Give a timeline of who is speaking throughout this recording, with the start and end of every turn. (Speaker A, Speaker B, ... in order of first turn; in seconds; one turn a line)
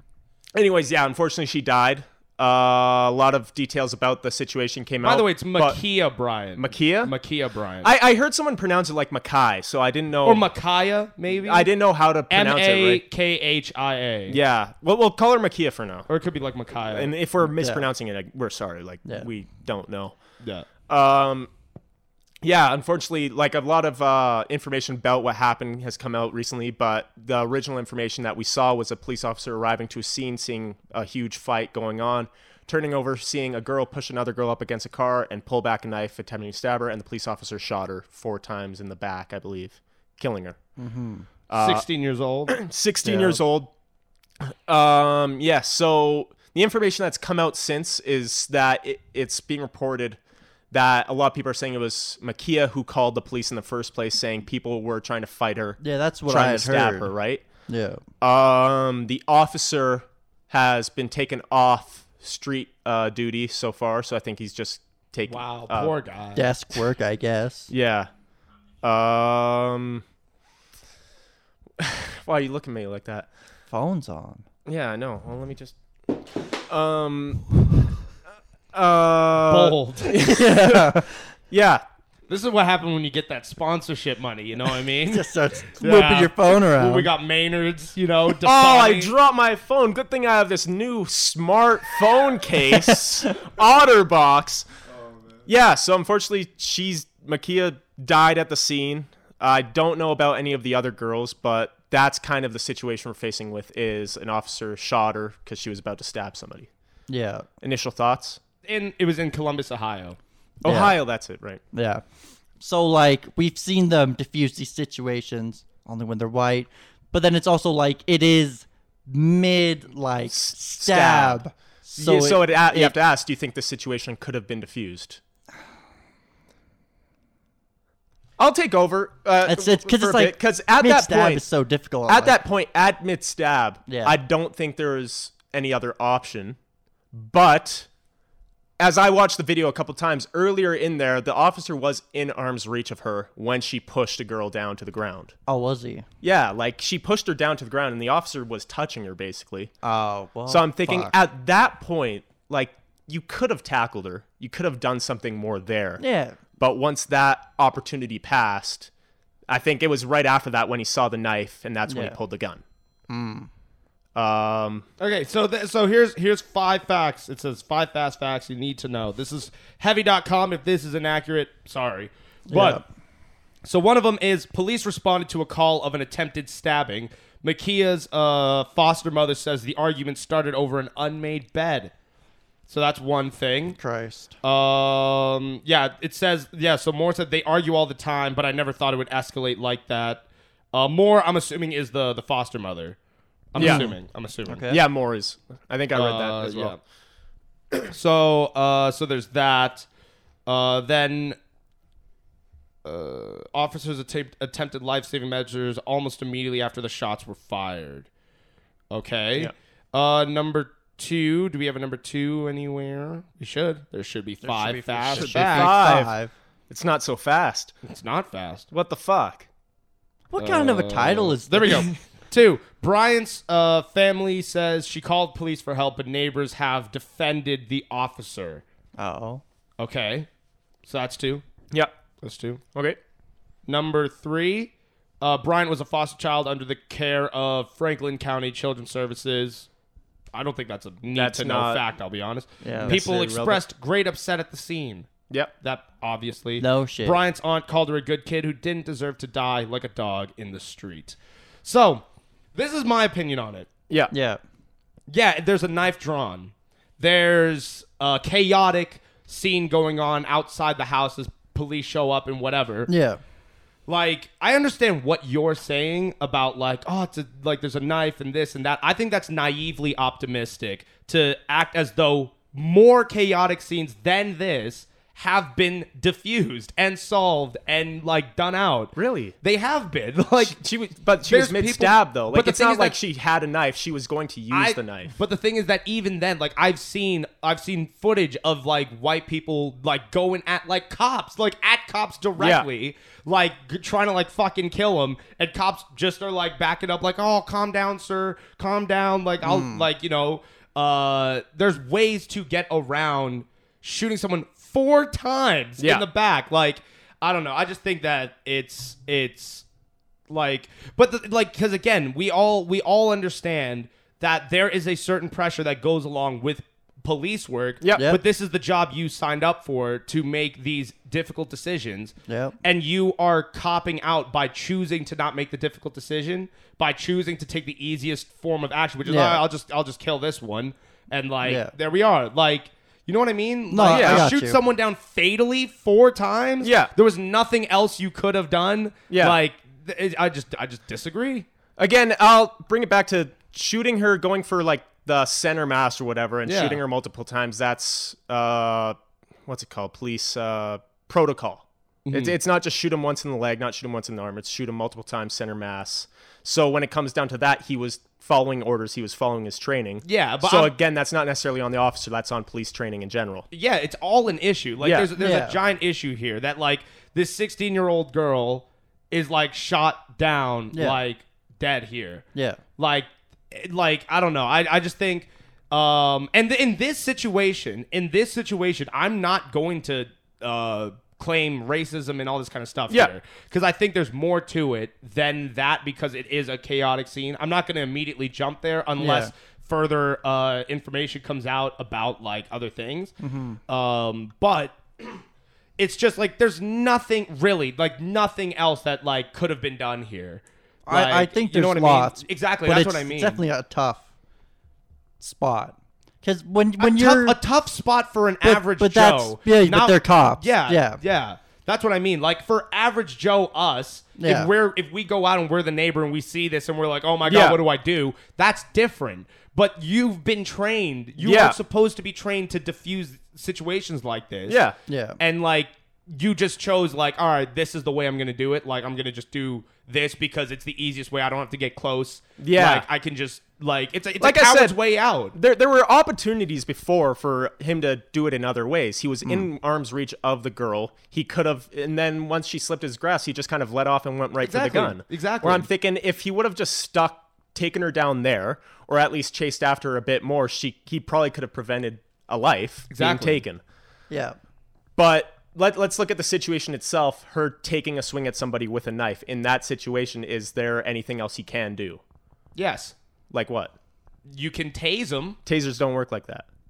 Speaker A: 0.5-5.8
Speaker B: 5.0-7.9
Speaker A: 6.6-7.1
Speaker A: 7.8-10.5
Speaker B: 10.2-11.7
Speaker A: 11.3-13.0
Speaker B: 12.3-14.4
Speaker A: 14.3-16.1
Speaker B: 16.1-17.1
Speaker A: 16.9-20.1
Speaker C: 17.4-17.9
Speaker B: 20.4-20.7
Speaker A: 20.9-21.5
Speaker A: 22.4-40.6
Speaker C: 40.8-41.2
Speaker A: 41.5-41.8
Speaker B: 41.5-42.5
Speaker A: 42.5-43.7
Speaker C: 43.1-43.4
Speaker A: 44.4-50.2
Speaker A: 50.7-57.4
Speaker C: 55.8-57.1
Speaker C: 57.7-58.0
Speaker A: 58.2-65.9
Speaker B: 65.3-66.5
Speaker C: 66.3-67.7
Speaker A: 67.7-68.1
Speaker A: 68.8-70.0
Speaker A: 71.8-73.3
Speaker C: 73.7-74.4
Speaker A: 74.7-75.7
Speaker A: 76.7-77.5
Speaker A: 78.7-80.9
Speaker B: 79.5-80.1
Speaker C: 80.1-81.2
Speaker A: 81.5-81.8
Speaker B: 82.3-85.3
Speaker C: 85.0-87.1
Speaker B: 85.8-89.1
Speaker A: 88.4-94.7
Speaker A: 95.5-106.7
Speaker C: 107.1-107.5
Speaker A: 107.6-108.4
Speaker B: 108.6-110.2
Speaker A: 110.6-111.6
Speaker C: 110.6-110.9
Speaker C: 111.7-112.0
Speaker C: 112.6-122.9
Speaker A: 120.3-125.2
Speaker A: 128.4-131.4
Speaker C: 129.4-132.3
Speaker A: 132.1-136.6
Speaker C: 133.9-134.2
Speaker A: 137.1-137.9
Speaker A: 138.8-145.3
Speaker C: 145.5-146.1
Speaker A: 146.2-149.7
Speaker C: 149.8-151.1
Speaker A: 150.5-156.0
Speaker C: 156.0-156.4
Speaker A: 156.6-158.9
Speaker A: 159.5-162.6
Speaker C: 161.9-162.2
Speaker C: 163.1-163.5
Speaker A: 164.1-164.8
Speaker B: 165.0-172.8
Speaker C: 172.5-172.8
Speaker B: 173.6-181.9
Speaker B: 182.7-183.8
Speaker C: 183.7-184.3
Speaker B: 184.4-193.0
Speaker B: 193.5-194.7
Speaker C: 193.6-194.8
Speaker A: 193.6-193.9
Speaker A: 194.7-196.8
Speaker B: 195.9-196.8
Speaker B: 197.9-199.9
Speaker B: 200.4-201.3
Speaker B: 202.8-208.1
Speaker B: 208.9-215.7
Speaker C: 214.4-216.3
Speaker A: 215.1-216.1
Speaker A: 216.7-217.7
Speaker B: 217.8-218.7
Speaker A: 218.7-219.5
Speaker C: 220.3-221.9
Speaker B: 220.4-228.6
Speaker C: 229.0-229.4
Speaker B: 229.8-230.3
Speaker B: 230.8-231.4
Speaker B: 232.2-232.6
Speaker B: 233.7-239.7
Speaker B: 240.3-245.1
Speaker A: 241.1-241.8
Speaker C: 242.6-243.0
Speaker A: 242.8-243.6
Speaker B: 245.6-252.0
Speaker C: 246.6-247.2
Speaker B: 252.5-253.7
Speaker C: 254.1-254.4
Speaker B: 255.1-262.9
Speaker C: 262.9-263.2
Speaker B: 263.9-280.6
Speaker A: 278.9-279.4
Speaker A: 280.4-285.1
Speaker B: 281.2-282.9
Speaker B: 284.5-309.6
Speaker A: 292.4-292.6
Speaker C: 299.4-299.9
Speaker A: 305.8-306.1
Speaker B: 310.3-341.4
Speaker A: 317.8-318.1
Speaker C: 317.9-318.2
Speaker C: 322.3-322.6
Speaker C: 329.0-329.4
Speaker C: 331.4-331.7
Speaker C: 333.7-334.6
Speaker A: 333.9-334.3
Speaker A: 336.6-336.9
Speaker A: 339.1-339.4
Speaker A: 341.8-363.5
Speaker B: 346.4-346.8
Speaker B: 352.1-352.4
Speaker B: 360.0-360.7
Speaker B: 363.5-372.2
Speaker A: 364.8-365.1
Speaker C: 365.1-365.6
Speaker C: 370.7-371.0
Speaker C: 372.3-372.6
Speaker B: 372.8-393.1
Speaker C: 389.0-389.3
Speaker C: 393.2-393.6
Speaker B: 393.7-395.2
Speaker B: 395.8-403.4
Speaker C: 400.9-404.0
Speaker C: 405.2-407.4
Speaker B: 406.8-424.6
Speaker C: 408.4-411.0
Speaker C: 414.2-414.5
Speaker A: 417.3-417.6
Speaker A: 421.2-421.6
Speaker A: 424.5-424.8
Speaker C: 424.9-425.2
Speaker B: 425.2-435.3
Speaker A: 432.4-432.9
Speaker A: 434.2-434.8
Speaker A: 435.3-453.6
Speaker B: 444.4-445.7
Speaker B: 452.9-453.4
Speaker C: 454.1-454.4
Speaker A: 455.0-462.0
Speaker B: 462.6-462.9
Speaker A: 463.3-463.7
Speaker B: 464.3-465.4
Speaker A: 465.4-466.4